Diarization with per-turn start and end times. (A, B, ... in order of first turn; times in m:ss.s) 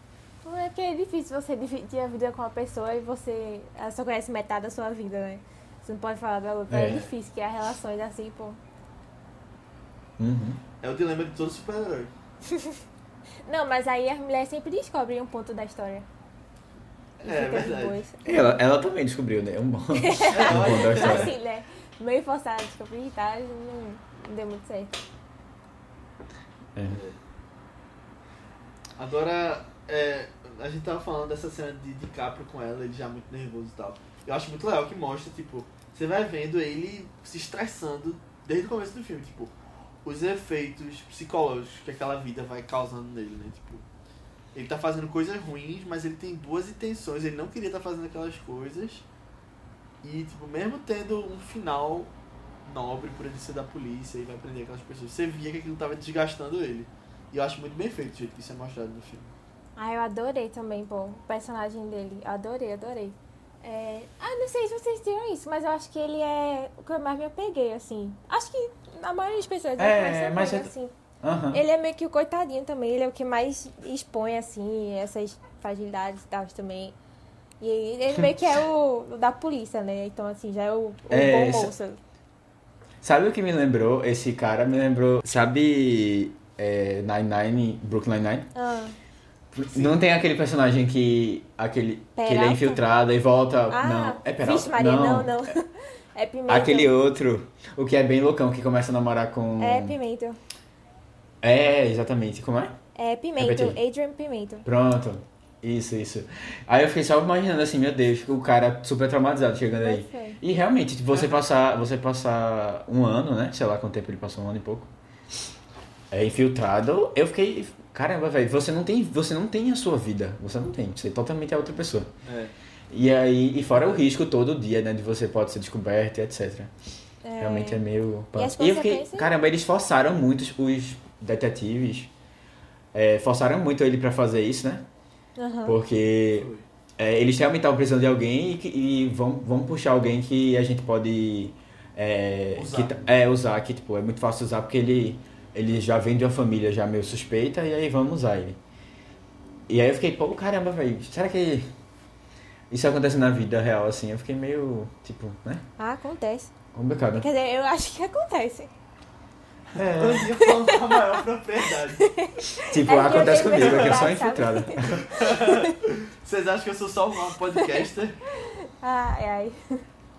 0:00.4-0:08.6 A
0:06.7-0:07.1 B
0:10.2-0:10.6 B
0:10.8-0:12.1 C
0:13.5-0:16.1 A
0:17.2-0:18.0 C
0:17.2-0:18.6 A
0:18.2-0:21.3 B
0:20.0-0:25.0 A
0:20.3-0:21.3 C
0:26.8-0:27.0 B
0:26.9-0:27.2 C
0:29.0-0:39.5 C
0:40.0-0:43.8 C
0:44.5-0:49.0 C
0:50.0-0:52.1 C
0:52.6-0:59.3 C
0:59.8-1:10.9 A
1:09.8-1:10.7 B
1:11.2-1:11.6 B
1:11.5-1:17.0 A
1:17.6-1:22.0 A
1:21.1-1:21.7 B
1:23.0-1:28.5 B
1:28.6-1:29.0 A
1:29.5-1:35.5 B
1:29.7-1:30.0 C
1:32.2-1:32.8 A
1:33.7-1:36.9 A
1:36.5-1:40.0 B
1:39.6-1:40.4 A
1:41.4-1:42.8 B
1:43.0-1:44.6 A
1:43.4-1:43.8 B
1:44.6-1:54.9 B
1:49.8-1:50.4 A
1:56.1-2:02.1 B
2:02.2-2:02.5 C
2:02.9-2:06.7 B
2:07.2-2:07.8 A
2:07.4-2:12.1 B
2:08.3-2:09.3 A
2:12.9-2:14.9 B
2:15.4-2:15.8 A
2:15.6-2:28.6 B
2:16.4-2:16.6 C
2:22.6-2:23.0 C
2:29.7-2:31.7 B
2:32.7-2:35.6 B
2:35.8-2:36.5 A
2:36.7-2:37.3 B
2:37.2-2:38.7 A
2:39.8-2:40.3 B
2:39.8-2:42.1 C
2:40.4-2:41.2 A
2:42.0-2:45.8 A
2:42.7-2:45.1 B
2:43.2-2:44.0 C
2:44.9-2:48.2 C
2:47.6-2:47.8 A
2:48.4-2:49.8 A